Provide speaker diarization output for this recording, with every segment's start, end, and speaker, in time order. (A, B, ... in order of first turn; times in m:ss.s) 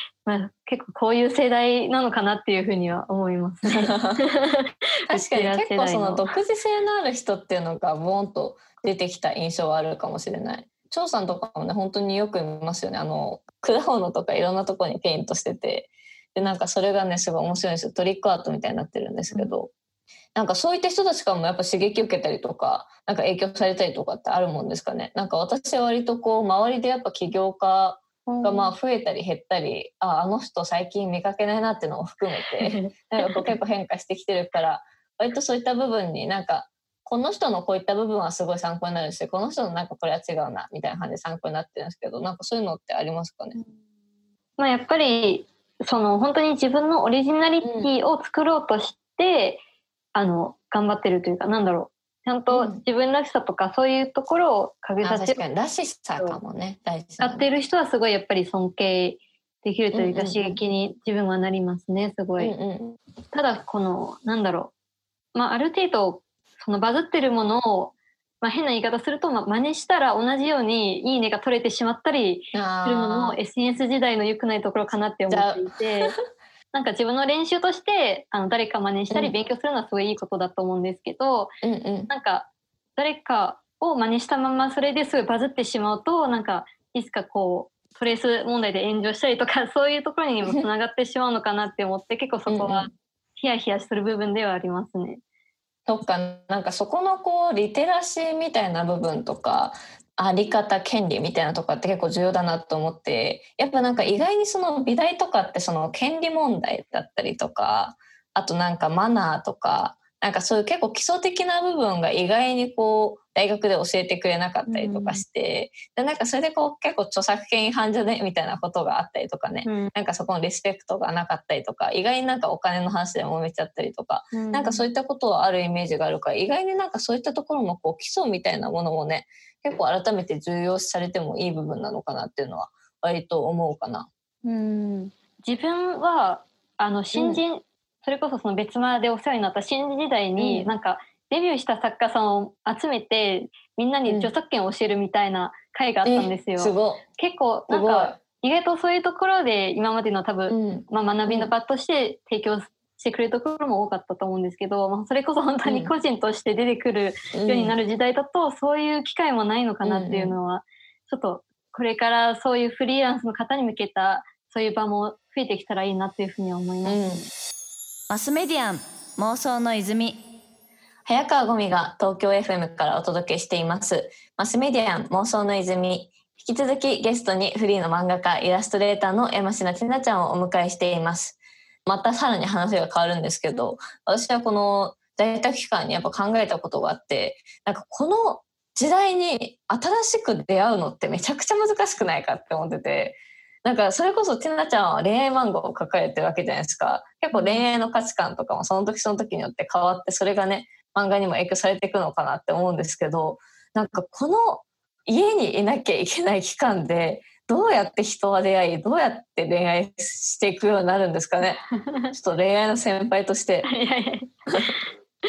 0:00.2-0:06.3 A
0:03.7-0:04.2 B
0:05.1-0:19.7 B
0:19.3-0:19.5 A
0:20.3-0:43.6 B
0:28.2-0:28.7 A
0:32.6-0:33.6 A
0:44.6-0:49.6 A
0:47.6-0:47.9 B
0:50.1-0:55.4 A
0:52.5-0:52.8 B
0:55.0-0:57.5 B
0:57.2-1:02.6 A
0:59.9-1:00.6 B
1:02.4-1:03.0 B
1:03.3-1:04.7 A
1:05.3-1:16.1 A
1:12.5-1:13.4 B
1:15.3-1:16.2 B
1:16.7-1:21.5 A
1:21.6-1:22.1 B
1:22.1-1:35.2 A
1:32.5-1:32.9 B
1:35.9-2:14.1 B
1:54.7-1:55.2 A
1:59.6-1:59.9 A
2:04.3-2:04.9 A
2:14.4-2:47.3 A
2:17.1-2:17.4 B
2:20.4-2:20.7 B
2:24.1-2:24.3 B
2:26.0-2:27.0 B
2:27.7-2:28.2 B
2:30.5-2:31.5 B
2:35.6-2:35.9 B
2:37.3-2:37.8 B
2:39.8-2:40.4 B
2:46.8-2:47.2 B
2:48.1-2:50.2 C
2:51.0-3:31.6 B
3:17.3-3:17.7 A
3:31.8-3:32.1 A
3:32.1-3:33.7 B
3:33.6-3:34.3 A